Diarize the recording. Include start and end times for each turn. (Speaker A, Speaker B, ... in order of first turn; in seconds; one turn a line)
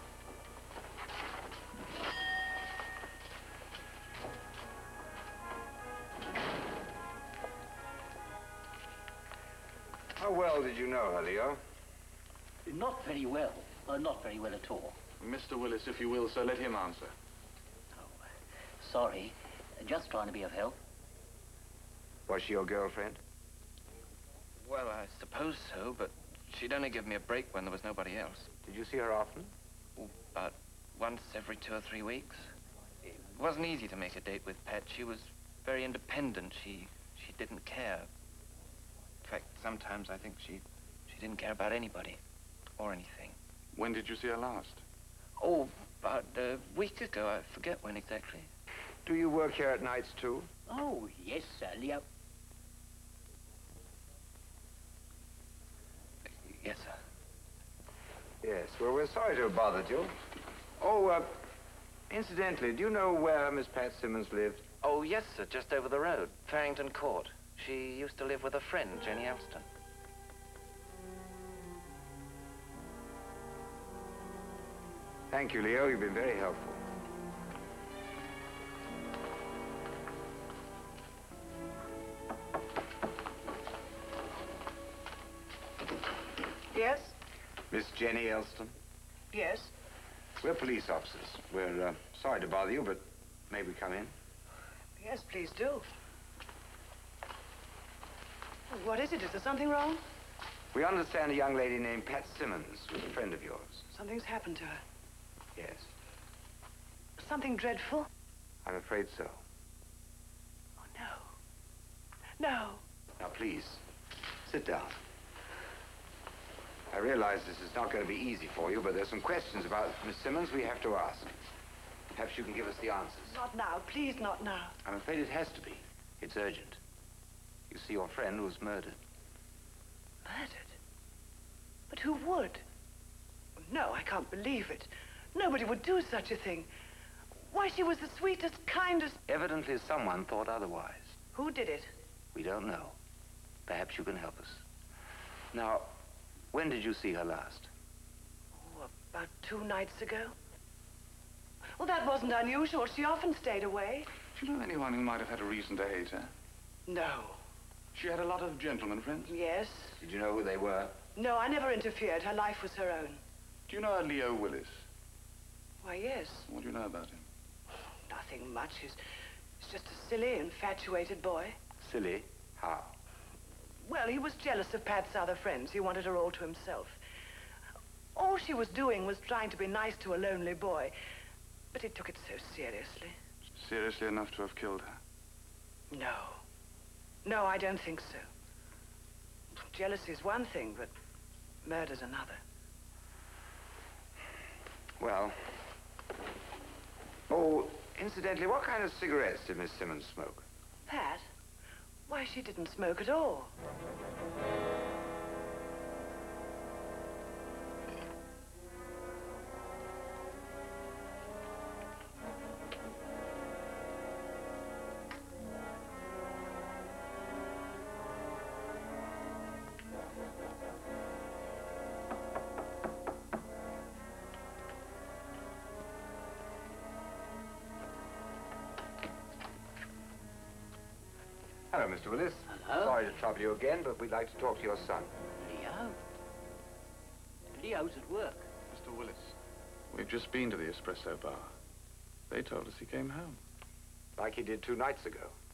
Speaker A: 10.2-11.6
Speaker B: 12.7-15.0
Speaker C: 15.2-17.1
Speaker B: 18.0-18.2
Speaker B: 18.8-20.8
Speaker A: 22.3-23.2
Speaker D: 24.6-28.5
Speaker A: 28.6-29.5
Speaker D: 30.0-32.5
Speaker D: 33.1-38.1
Speaker D: 39.2-42.2
Speaker D: 42.8-43.4
Speaker C: 43.7-44.8
Speaker D: 45.4-48.5
Speaker A: 49.0-50.5
Speaker B: 50.7-52.0
Speaker D: 56.5-57.0
Speaker A: 58.4-60.1
Speaker A: 60.8-61.5
Speaker A: 62.1-64.7
Speaker A: 75.3-76.8
Speaker E: 86.7-87.2
Speaker A: 87.7-88.7
Speaker E: 89.3-89.7
Speaker A: 90.4-94.1
Speaker E: 95.0-95.8
Speaker E: 98.7-100.0
Speaker A: 100.7-103.8
Speaker E: 103.9-104.8
Speaker A: 105.6-105.9
Speaker E: 107.2-108.1
Speaker A: 108.7-109.4
Speaker E: 110.8-111.3
Speaker E: 112.4-112.8
Speaker A: 113.2-113.8
Speaker A: 114.4-115.0
Speaker A: 116.9-121.3
Speaker A: 122.1-123.4
Speaker E: 123.3-124.8
Speaker A: 124.8-126.8
Speaker A: 127.7-129.0
Speaker E: 130.2-130.8
Speaker E: 131.9-132.6
Speaker E: 133.6-136.7
Speaker E: 137.5-139.2
Speaker A: 139.3-141.2
Speaker E: 141.3-141.9
Speaker A: 142.3-143.0
Speaker A: 143.7-144.7
Speaker A: 145.5-145.9
Speaker A: 146.5-147.7
Speaker E: 148.6-150.3
Speaker E: 151.8-154.1
Speaker C: 154.3-156.3
Speaker E: 156.9-157.4
Speaker C: 157.9-159.3
Speaker E: 159.3-160.0
Speaker A: 160.0-161.0
Speaker E: 161.2-163.2
Speaker C: 163.7-164.8
Speaker E: 165.8-166.5
Speaker C: 166.5-167.2
Speaker E: 168.1-169.0
Speaker E: 169.6-171.6
Speaker A: 171.8-172.9
Speaker E: 173.8-177.0
Speaker E: 178.2-180.9
Speaker E: 181.7-183.2
Speaker C: 183.6-185.0
Speaker E: 185.9-186.4
Speaker E: 187.2-188.3
Speaker E: 189.6-190.9
Speaker E: 191.6-192.4
Speaker A: 195.0-195.5
Speaker A: 197.3-200.4
Speaker E: 200.9-201.3
Speaker E: 202.1-203.5
Speaker A: 231.7-235.1
Speaker B: 232.5-233.0
Speaker B: 235.4-236.0
Speaker B: 237.5-238.5
Speaker C: 238.7-239.3
Speaker C: 239.9-241.5
Speaker C: 242.3-243.4
Speaker A: 244.2-245.3